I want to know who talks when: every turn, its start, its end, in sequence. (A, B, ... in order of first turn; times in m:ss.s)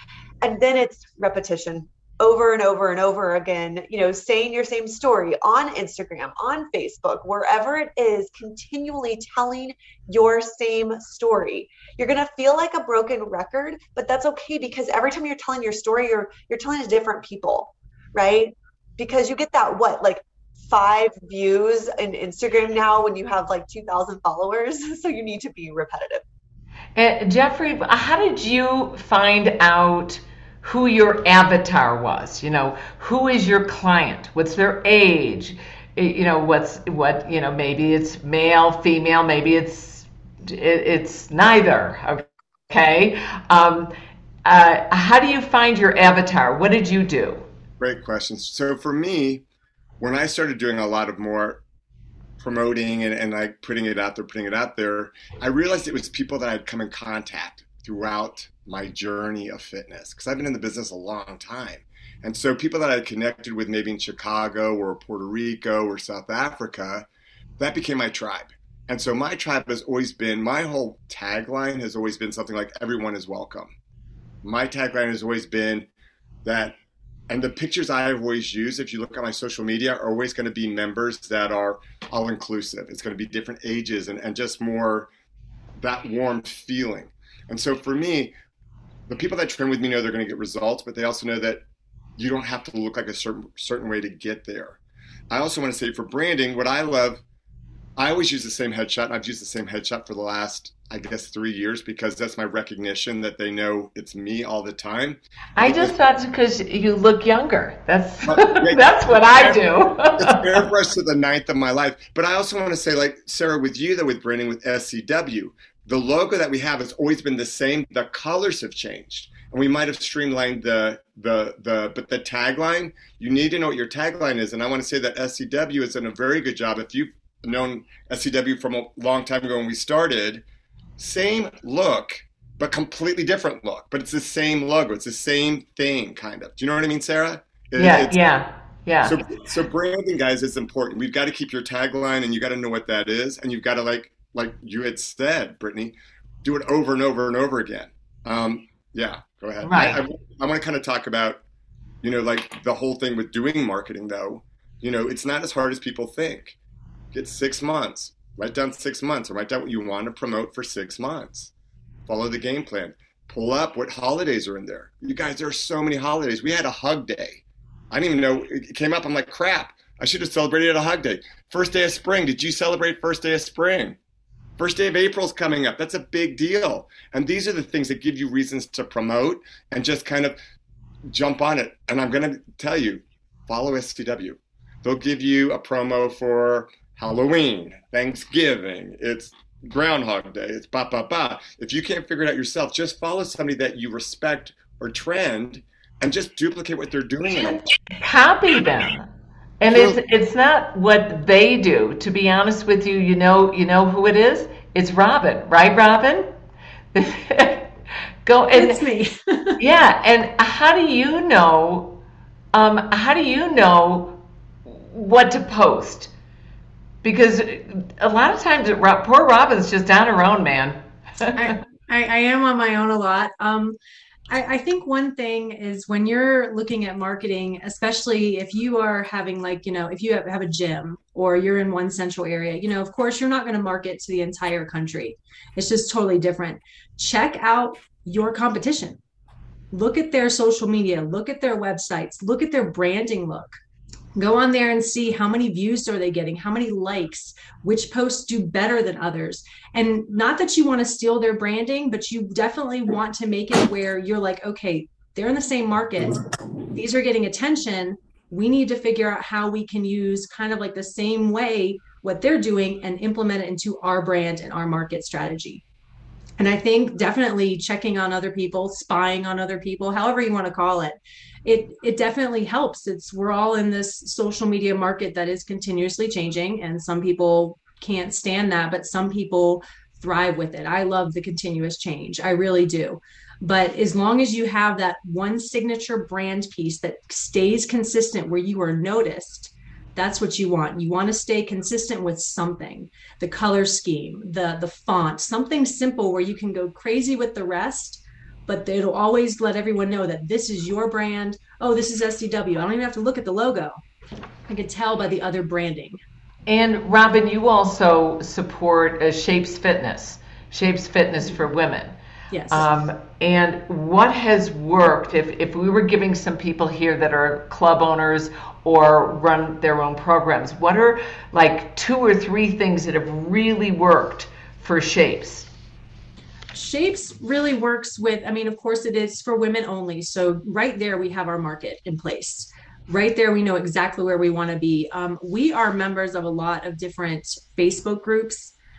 0:00.4-0:26.2 A
0:27.0-0:43.9 B
0:44.4-0:47.4 B
0:47.8-0:49.4 C
0:50.0-0:51.6 C
0:52.4-1:07.1 C
1:07.6-1:13.7 C
1:14.4-1:15.9 C
1:16.4-1:16.8 C
1:17.3-1:25.1 C
1:25.8-1:28.3 C
1:29.1-1:31.6 C
1:32.2-1:34.8 C
1:35.3-1:37.2 C
1:38.0-1:45.9 C
1:45.6-1:50.6 B
1:48.2-1:49.6 C
1:50.2-2:10.4 C
2:11.0-2:18.2 C
2:17.8-2:19.2 B
2:19.0-2:31.4 C
2:29.6-2:30.0 B
2:32.0-2:36.6 C
2:37.1-2:41.5 C
2:42.1-2:54.0 C
2:54.6-3:00.4 C
3:01.1-3:17.6 C
3:17.9-3:19.1 B
3:19.6-3:26.3 B
3:19.6-3:20.0 C
3:26.9-3:27.7 B
3:28.2-3:28.8 B
3:28.5-3:29.6 D
3:29.6-3:32.0 B
3:32.5-3:36.1 B
3:37.0-3:41.6 B
3:41.3-3:43.8 D
3:44.3-3:59.0 D
3:59.7-4:03.6 D
4:04.1-4:25.6 D
4:26.4-5:03.8 D
5:04.5-5:06.0 D
5:06.5-5:11.9 B
5:12.3-5:12.7 D
5:12.5-5:25.5 B
5:26.5-5:38.5 D